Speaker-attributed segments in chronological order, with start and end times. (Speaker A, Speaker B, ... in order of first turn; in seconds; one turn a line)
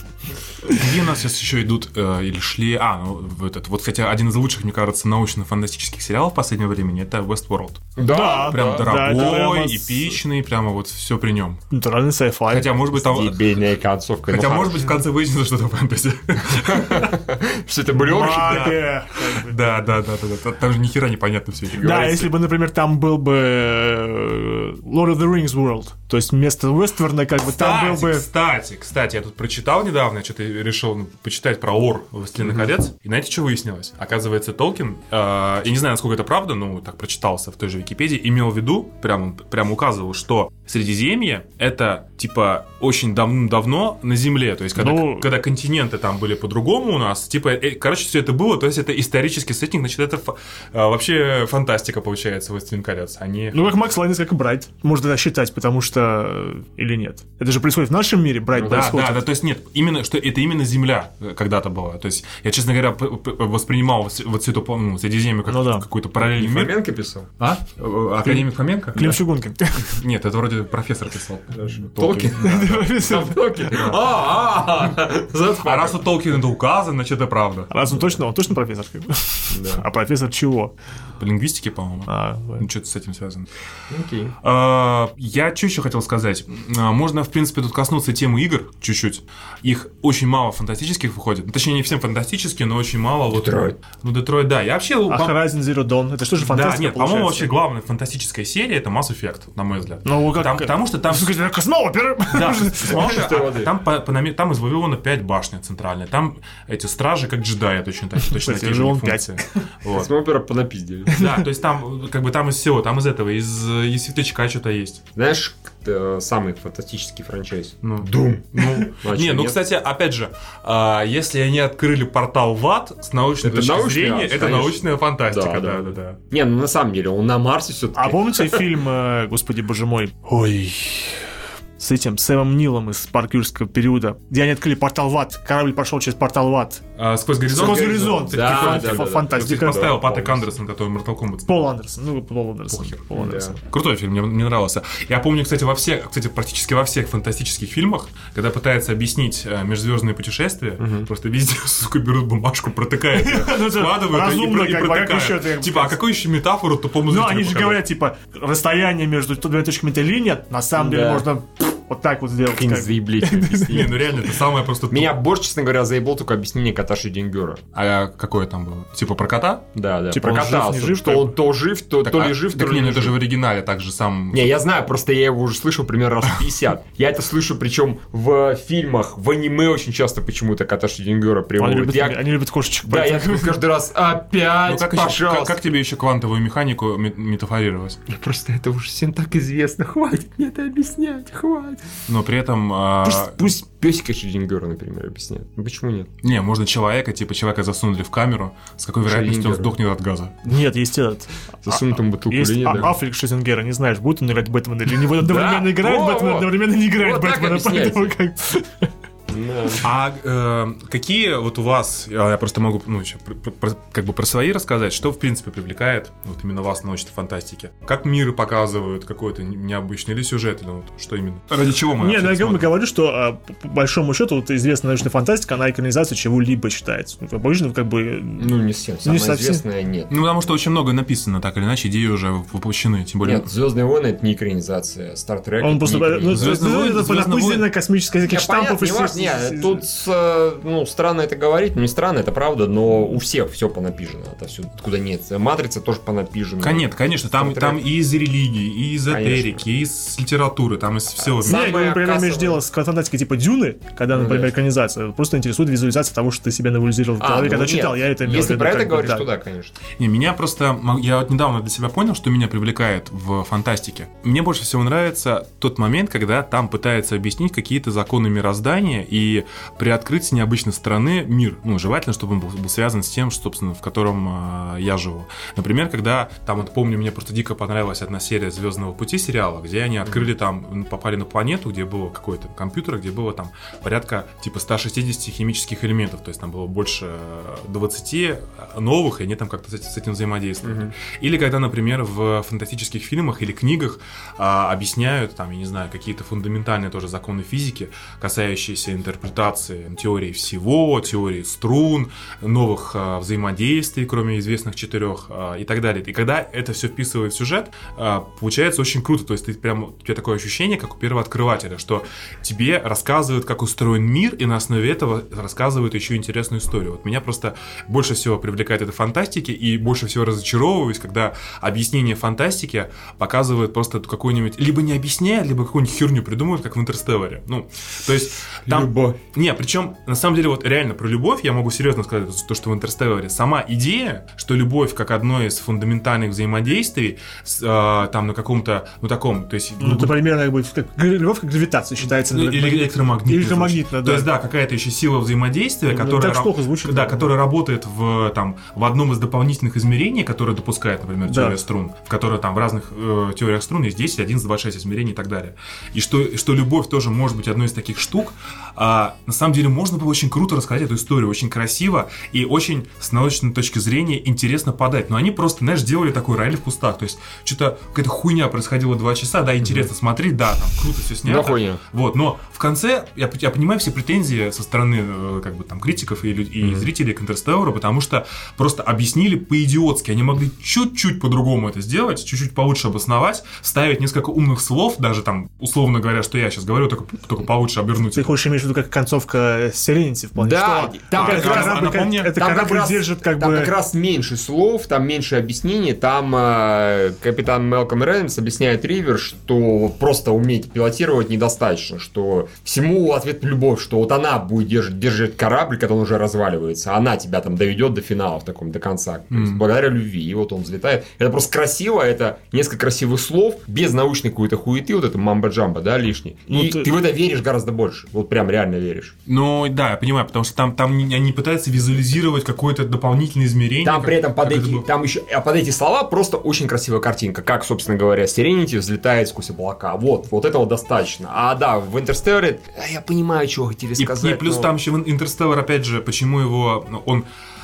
Speaker A: 0.7-11.6
Speaker B: 8.0-9.1
Speaker C: 8.1-10.2
Speaker C: 11.7-12.7
Speaker A: 12.5-13.4
Speaker B: 12.9-14.9
Speaker A: 14.3-17.1
Speaker B: 16.7-18.8
Speaker C: 17.9-19.8
Speaker A: 18.4-22.2
Speaker B: 21.7-22.3
Speaker C: 21.8-28.3
Speaker A: 27.5-53.8
Speaker B: 32.4-32.7
Speaker C: 44.8-45.3
Speaker C: 53.5-59.3
Speaker A: 58.6-66.8
Speaker C: 65.5-65.9
Speaker B: 66.2-67.3
Speaker A: 67.4-69.2
Speaker C: 68.2-70.0
Speaker A: 69.8-73.2
Speaker B: 72.0-76.1
Speaker C: 72.4-73.8
Speaker A: 73.7-74.0
Speaker A: 75.6-77.7
Speaker C: 77.7-80.7
Speaker B: 79.5-79.8
Speaker A: 81.2-83.5
Speaker C: 82.1-82.7
Speaker B: 83.9-84.4
Speaker A: 84.4-95.4
Speaker B: 93.3-93.8
Speaker C: 95.1-97.5
Speaker A: 96.4-101.4
Speaker C: 100.0-103.2
Speaker A: 102.3-110.1
Speaker B: 102.8-103.7
Speaker C: 108.2-109.4
Speaker B: 109.9-111.2
Speaker C: 111.1-111.5
Speaker A: 111.1-115.0
Speaker B: 115.2-119.6
Speaker A: 117.8-126.2
Speaker B: 123.4-128.7
Speaker C: 128.0-131.3
Speaker C: 131.8-136.8
Speaker A: 137.0-141.5
Speaker C: 137.5-139.9
Speaker B: 137.6-140.6
Speaker C: 141.5-143.6
Speaker A: 142.7-157.8
Speaker B: 143.1-143.6
Speaker B: 150.8-151.1
Speaker C: 153.1-156.0
Speaker C: 157.1-164.0
Speaker B: 160.8-161.3
Speaker B: 162.5-164.0
Speaker A: 163.7-165.1
Speaker B: 164.9-167.7
Speaker A: 167.8-169.7
Speaker B: 169.8-173.2
Speaker C: 170.1-171.3
Speaker A: 172.0-174.4
Speaker B: 174.3-182.3
Speaker C: 181.6-183.6
Speaker B: 182.8-185.6
Speaker A: 184.7-188.0
Speaker B: 188.1-191.9
Speaker A: 192.1-193.5
Speaker B: 193.0-196.1
Speaker A: 196.2-200.4
Speaker B: 199.1-199.7
Speaker C: 200.4-208.9
Speaker B: 201.7-203.0
Speaker B: 205.2-208.1
Speaker B: 209.3-209.9
Speaker A: 209.8-222.8
Speaker C: 222.0-229.6
Speaker B: 228.4-230.2
Speaker A: 230.1-233.5
Speaker B: 233.2-236.6
Speaker C: 235.6-239.8
Speaker A: 236.3-237.7
Speaker B: 238.2-247.9
Speaker A: 246.6-251.6
Speaker B: 249.1-249.7
Speaker B: 251.2-252.6
Speaker C: 251.4-259.3
Speaker B: 254.1-254.5
Speaker B: 257.2-259.8
Speaker A: 260.0-340.2
Speaker B: 290.6-290.9
Speaker B: 328.7-329.2
Speaker C: 339.8-344.3
Speaker A: 342.1-388.3
Speaker C: 345.9-347.3
Speaker C: 351.3-351.6
Speaker B: 369.6-369.9
Speaker B: 371.2-371.8
Speaker B: 376.6-376.9
Speaker C: 388.1-393.7
Speaker B: 390.4-419.1
Speaker A: 391.1-392.3
Speaker A: 409.3-409.6
Speaker C: 416.5-416.9
Speaker A: 419.3-424.9
Speaker B: 423.8-434.7
Speaker A: 434.0-437.3